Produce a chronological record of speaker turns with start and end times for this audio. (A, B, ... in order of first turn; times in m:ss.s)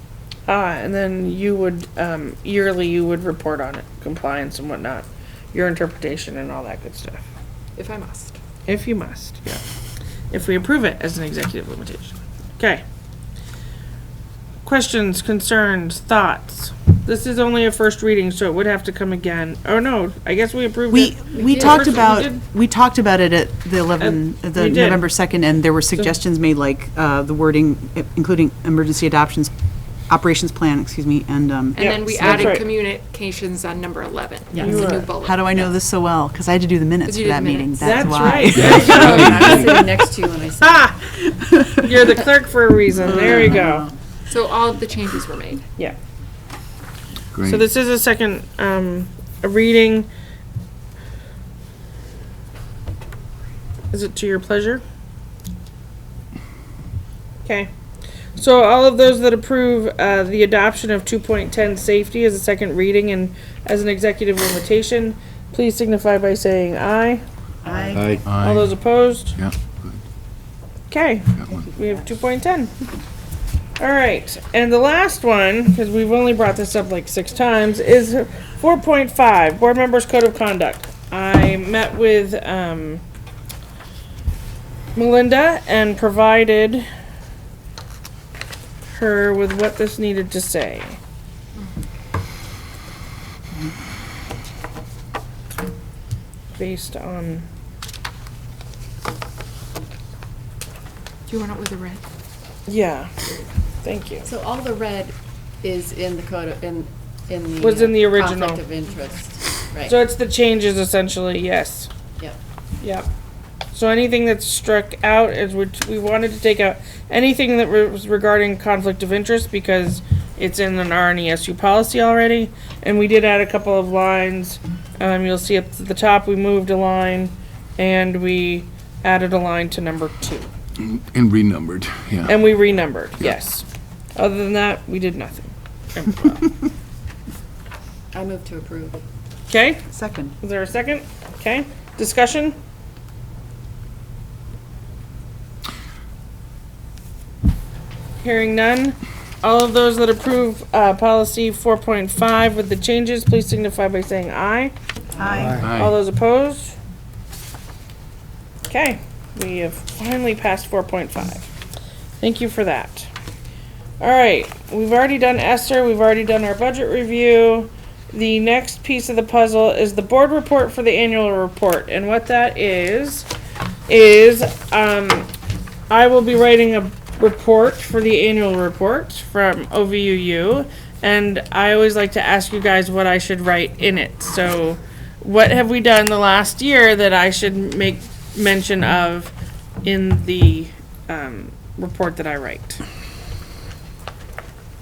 0:00.5-0:07.2 A
0:07.8-0:08.4 B
0:08.7-0:09.6 A
0:10.3-0:12.8 A
0:14.6-0:22.4 A
0:20.9-0:29.5 C
0:24.0-0:25.0 A
0:30.1-0:32.4 C
0:31.7-0:35.7 B
0:31.8-0:32.7 A
0:34.5-0:35.0 D
0:34.6-0:35.1 A
0:35.2-0:40.0 C
0:37.0-0:38.9 B
0:37.8-0:39.7 A
0:38.6-0:39.5 E
0:38.6-0:41.0 D
0:40.6-0:41.0 A
0:41.2-0:42.2 C
0:41.8-0:43.9 A
0:43.0-0:43.9 C
0:44.3-0:45.6 B
0:47.3-0:47.7 E
0:47.4-0:50.1 A
0:53.9-0:54.8 A
0:57.4-0:57.7 A
0:58.4-1:07.2 A
1:07.6-1:08.1 D
1:08.2-1:08.8 E
1:08.4-1:09.4 A
1:09.4-1:10.0 E
1:10.9-1:12.7 A
1:11.5-1:12.1 D
1:13.8-1:23.0 A
1:25.0-1:26.9 A
1:28.9-1:31.0 A
1:36.6-1:37.5 A
1:41.3-1:42.0 B
1:42.7-1:43.1 A
1:43.8-1:44.3 A
1:44.2-1:50.0 D
1:47.6-1:48.6 A
1:49.9-1:51.9 A
1:52.8-1:53.1 A
1:53.7-2:10.5 A
2:10.8-2:12.4 E
2:12.3-2:16.6 A
2:18.1-2:19.0 D
2:19.5-2:19.8 A
2:19.9-2:20.4 C
2:20.4-2:22.6 A
2:28.2-2:34.7 A
2:35.2-2:35.6 C
2:35.2-2:36.8 A
2:35.6-2:36.0 E
2:38.7-2:41.5 A
2:42.2-2:43.1 A
2:44.0-2:53.3 A
2:53.9-2:55.3 A
2:55.9-3:09.3 A
3:09.8-3:12.8 A